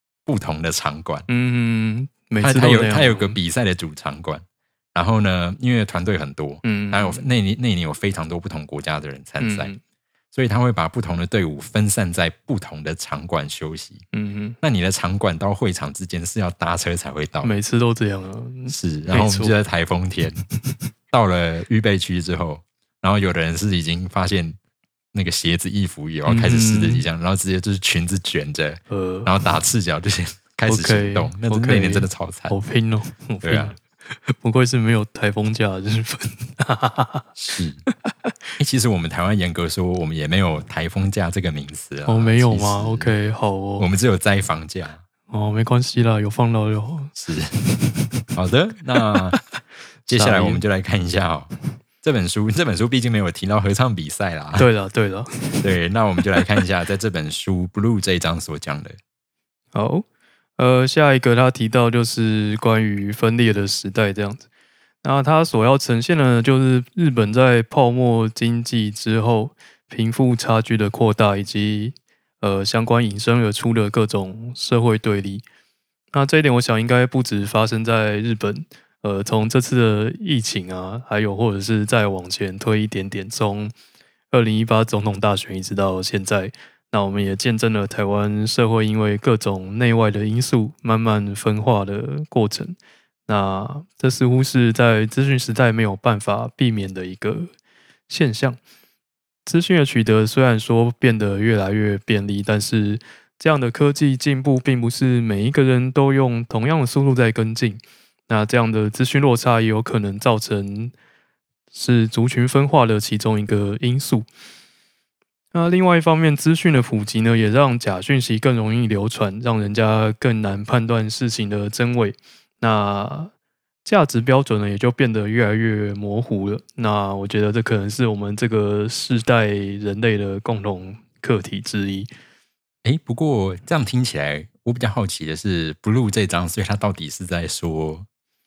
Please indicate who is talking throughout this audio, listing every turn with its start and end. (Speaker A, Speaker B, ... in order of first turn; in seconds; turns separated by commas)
Speaker A: 0.2-1.3, Speaker B: 1.3-3.4, Speaker A: 2.4-9.7, Speaker B: 6.6-7.3, Speaker B: 9.4-9.8, Speaker A: 10.3-14.0, Speaker B: 14.1-14.6, Speaker A: 14.6-17.5, Speaker B: 17.4-19.5, Speaker A: 18.7-20.4, Speaker A: 21.1-24.6, Speaker A: 25.1-32.5, Speaker B: 26.2-27.0, Speaker B: 28.9-29.3, Speaker B: 30.7-37.3, Speaker A: 33.4-33.7, Speaker A: 37.4-37.8, Speaker A: 38.6-43.1, Speaker B: 42.0-43.9, Speaker A: 43.8-45.0, Speaker B: 45.3-48.3, Speaker A: 47.1-47.5, Speaker A: 48.3-49.4, Speaker A: 50.1-51.5, Speaker B: 50.1-50.6, Speaker A: 52.0-54.7, Speaker B: 54.5-55.6, Speaker A: 55.6-59.0, Speaker B: 59.7-60.0, Speaker B: 60.6-64.4, Speaker B: 65.0-75.4, Speaker B: 76.1-83.7, Speaker B: 84.3-97.5, Speaker B: 98.1-98.6, Speaker B: 99.5-110.9, Speaker B: 111.7-114.2, Speaker B: 115.5-123.3, Speaker B: 123.8-132.1, Speaker A: 132.8-138.1